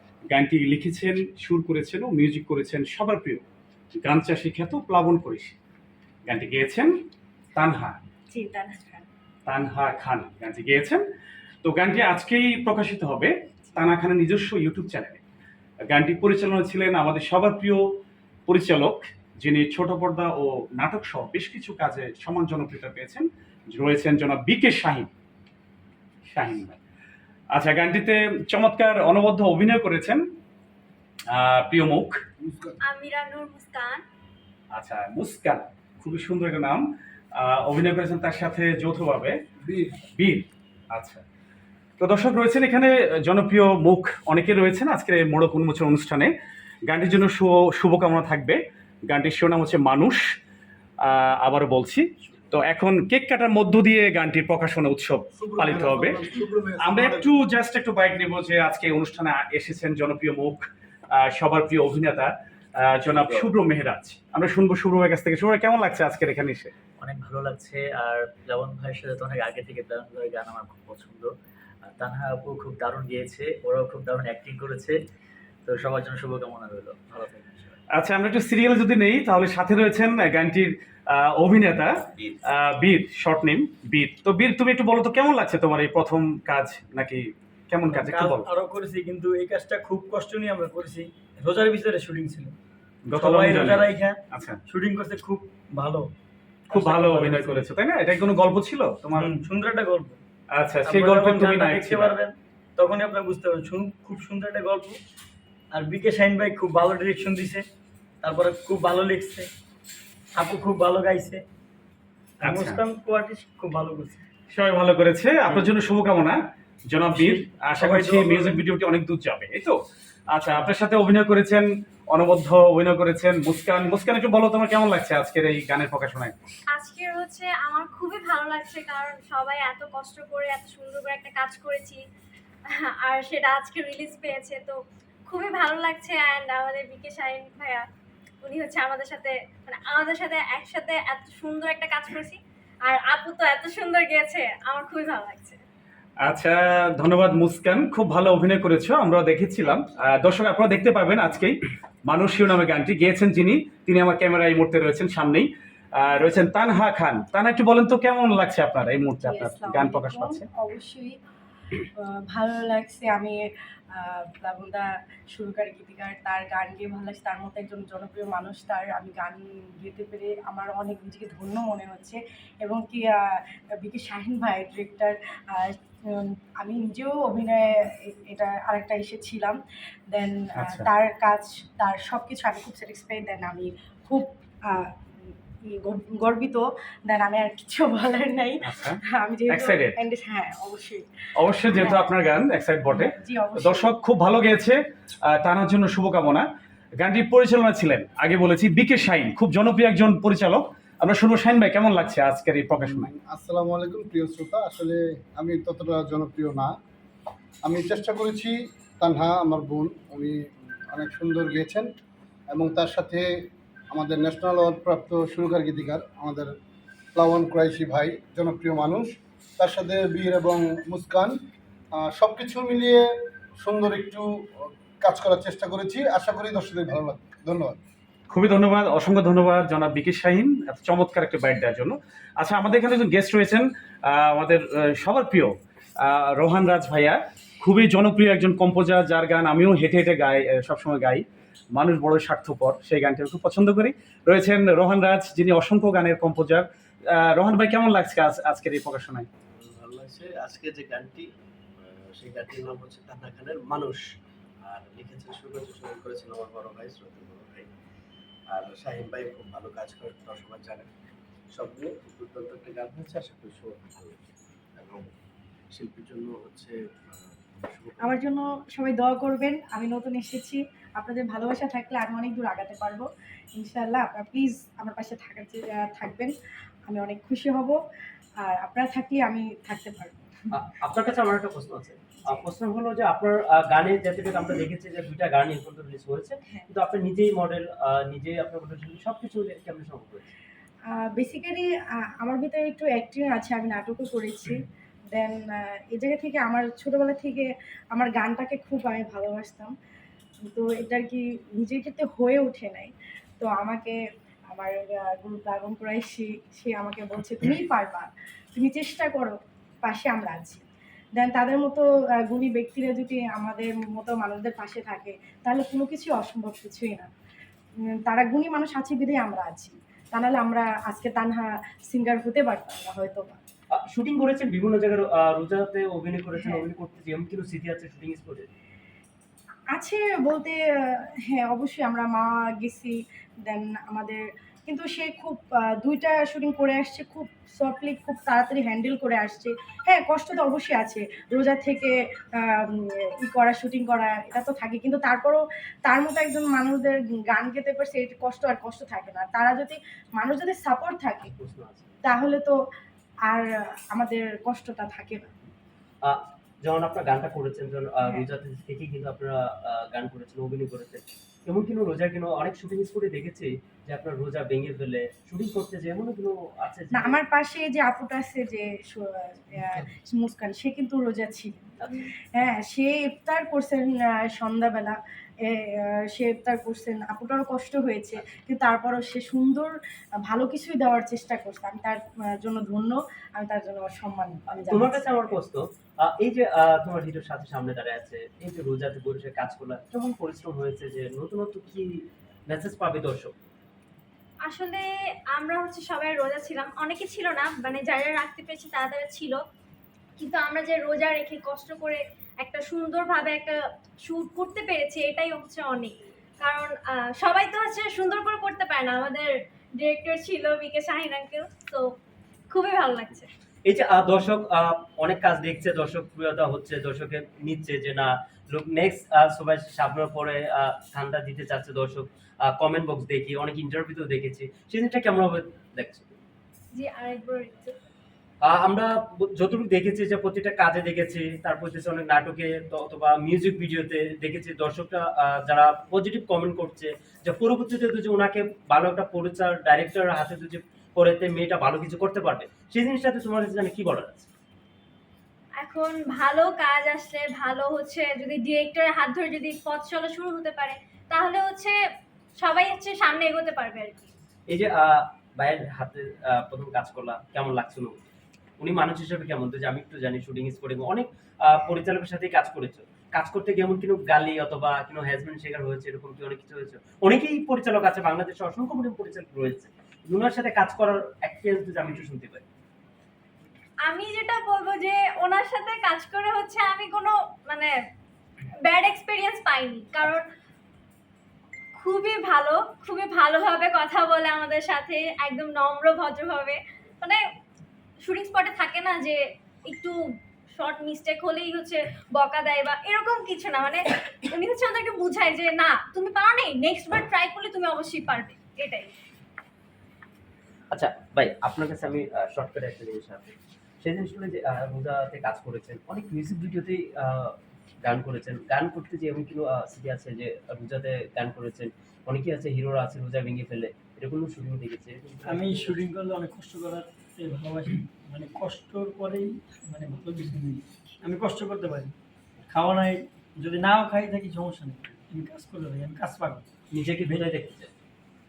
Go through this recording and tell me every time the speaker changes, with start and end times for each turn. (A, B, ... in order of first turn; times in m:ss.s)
0:00.3-0:03.4 A
0:04.0-0:05.6 A
0:06.3-0:06.9 A
0:07.6-0:08.0 A
0:08.3-0:09.0 B
0:09.4-0:11.0 A
0:11.6-0:15.2 A
0:15.9-0:17.9 A
0:18.5-0:25.1 A
0:26.3-0:26.8 A
0:27.5-0:30.2 A
0:31.3-0:32.2 A
0:32.4-0:32.8 C
0:32.9-0:34.0 D
0:34.7-0:36.8 A
0:37.4-0:39.4 A
0:39.6-0:40.0 C
0:40.2-0:41.2 A
0:42.0-0:46.3 A
0:46.9-0:50.2 A
0:51.0-1:06.7 A
0:55.4-0:57.3 C
1:07.0-1:11.3 E
1:11.8-1:15.0 E
1:15.6-1:17.8 E
1:17.9-1:21.9 A
1:22.4-1:28.5 A
1:27.9-1:32.6 F
1:33.0-1:34.6 A
1:33.1-1:36.1 F
1:36.7-1:39.3 A
1:36.7-1:37.6 F
1:39.1-1:40.2 F
1:40.5-1:42.1 A
1:40.9-1:45.0 F
1:45.7-1:47.6 F
1:48.2-1:49.5 F
1:50.4-1:51.4 F
1:52.4-1:52.8 A
1:52.4-1:54.2 F
1:54.5-1:59.8 A
1:57.1-1:58.5 F
2:00.3-2:06.3 A
2:06.7-2:12.0 D
2:12.7-2:17.8 D
2:18.4-2:25.6 D
2:26.2-2:40.4 A
2:39.2-2:41.1 B
2:42.0-2:43.4 B
2:43.9-2:59.6 B
3:00.1-3:11.0 B
3:00.6-3:00.9 A
3:08.6-3:09.0 A
3:09.5-3:09.9 A
3:11.4-3:16.4 A
3:11.6-3:12.1 B
3:12.9-3:14.0 B
3:17.0-3:23.1 A
3:22.8-3:26.7 C
3:27.6-3:31.9 C
3:32.5-3:36.5 C
3:37.1-3:41.4 C
3:41.9-3:47.8 C
3:48.3-4:09.3 A
4:09.6-4:11.3 G
4:11.8-4:14.0 G
4:14.6-4:17.7 G
4:18.5-4:20.9 G
4:21.5-4:25.1 G
4:25.7-4:28.2 G
4:28.0-4:36.3 B
4:36.9-4:37.8 B
4:38.4-4:40.1 B
4:40.5-4:50.3 H
4:50.9-4:51.7 B
4:52.2-4:54.6 B
4:55.1-4:59.7 B
5:00.5-5:04.0 B
5:04.5-5:10.6 B
5:11.1-5:17.1 B
5:18.0-5:23.4 B
5:23.8-5:28.5 H
5:26.4-5:26.6 B
5:29.7-5:30.6 B
5:31.3-5:51.3 B
5:51.2-5:51.9 H
5:52.0-5:52.6 B
5:53.3-5:55.3 B
5:56.0-6:07.2 H
6:06.9-6:15.0 B
6:15.5-6:19.7 B
6:20.3-6:25.4 B
6:24.5-6:33.3 H
6:34.5-6:34.8 D
6:35.4-6:39.3 D
6:40.2-6:43.5 D
6:44.1-6:49.3 D
6:49.8-6:51.8 D
6:52.5-6:53.3 D
6:53.6-7:06.2 H
7:06.7-7:07.8 D
7:08.4-7:24.3 H
7:25.6-7:31.7 D
7:32.4-7:34.1 D
7:34.5-7:38.0 H
7:38.6-7:52.4 H
7:53.9-7:57.7 D
7:58.6-8:00.2 D
8:01.8-8:07.2 D
8:08.0-8:09.9 D
8:10.6-8:18.9 D
8:20.7-8:35.8 H
8:35.3-8:41.9 F
8:42.5-8:46.4 F
8:46.7-8:47.7 H